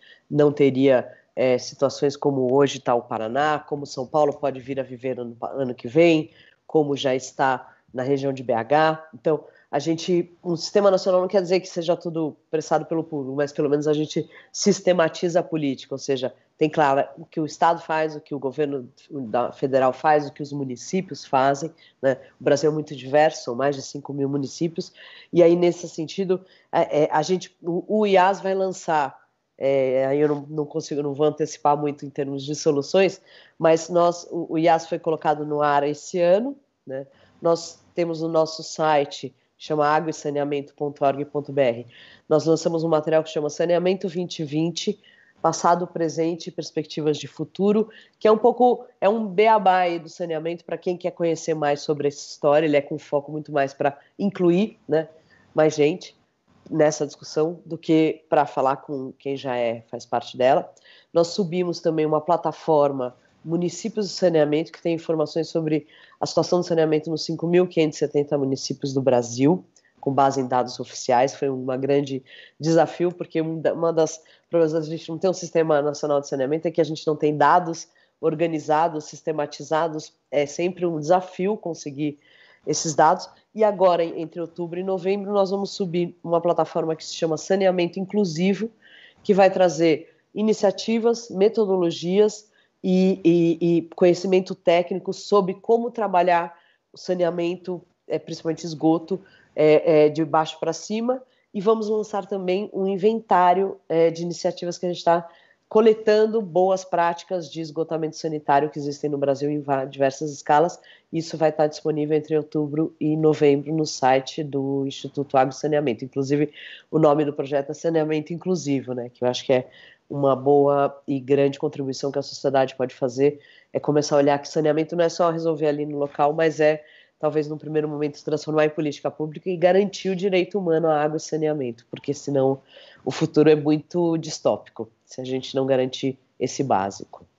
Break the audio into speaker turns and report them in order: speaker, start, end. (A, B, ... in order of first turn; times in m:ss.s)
0:00.3-0:56.2 A
0:56.7-1:28.7 A
1:29.2-2:17.3 A